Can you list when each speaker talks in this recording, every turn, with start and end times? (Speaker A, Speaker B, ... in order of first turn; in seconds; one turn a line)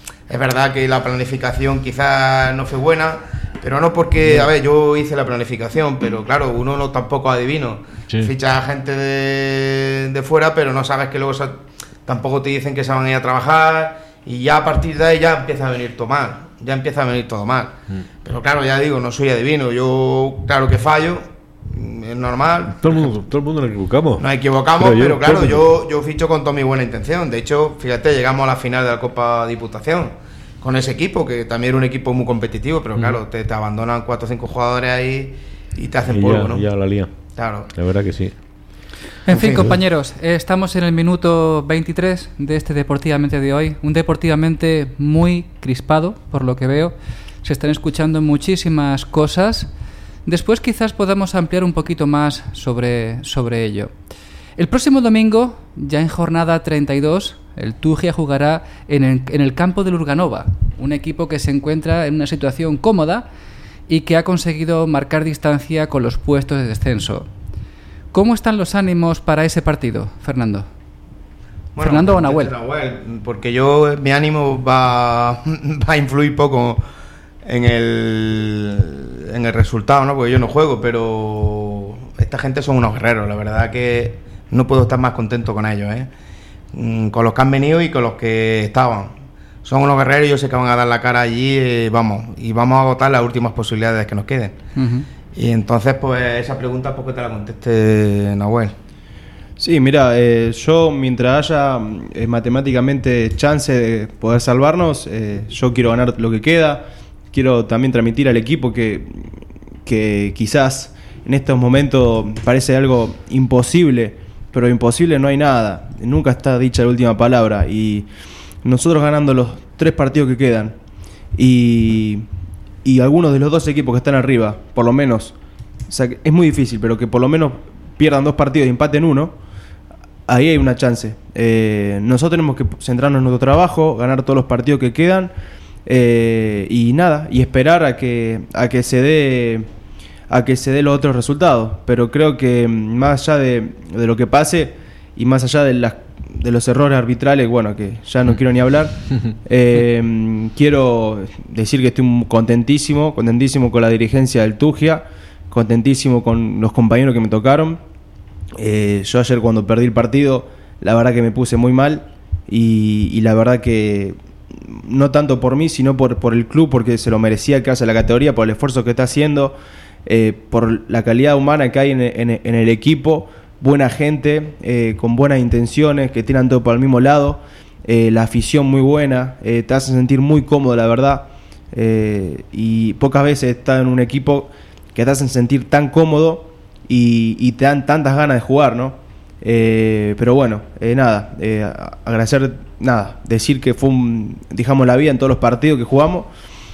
Speaker A: 0.3-23.1
Speaker B: 22.8-25.7
Speaker A: 24.2-37.7
Speaker B: 36.1-38.4
Speaker C: 39.2-49.7
Speaker A: 39.3-39.7
Speaker C: 50.2-53.9
Speaker C: 54.6-63.2
Speaker C: 63.9-67.3
Speaker C: 68.1-70.7
Speaker A: 71.7-76.8
Speaker C: 71.8-72.5
Speaker A: 77.4-86.1
Speaker A: 86.7-94.6
Speaker C: 94.8-95.1
Speaker A: 95.3-98.7
Speaker D: 99.6-118.1
Speaker D: 118.6-120.7
Speaker D: 121.3-122.2
Speaker D: 122.8-125.3
Speaker D: 125.9-129.3
Speaker D: 130.3-135.3
Speaker D: 135.8-139.7
Speaker D: 140.3-157.8
Speaker D: 158.6-169.5
Speaker D: 170.1-196.3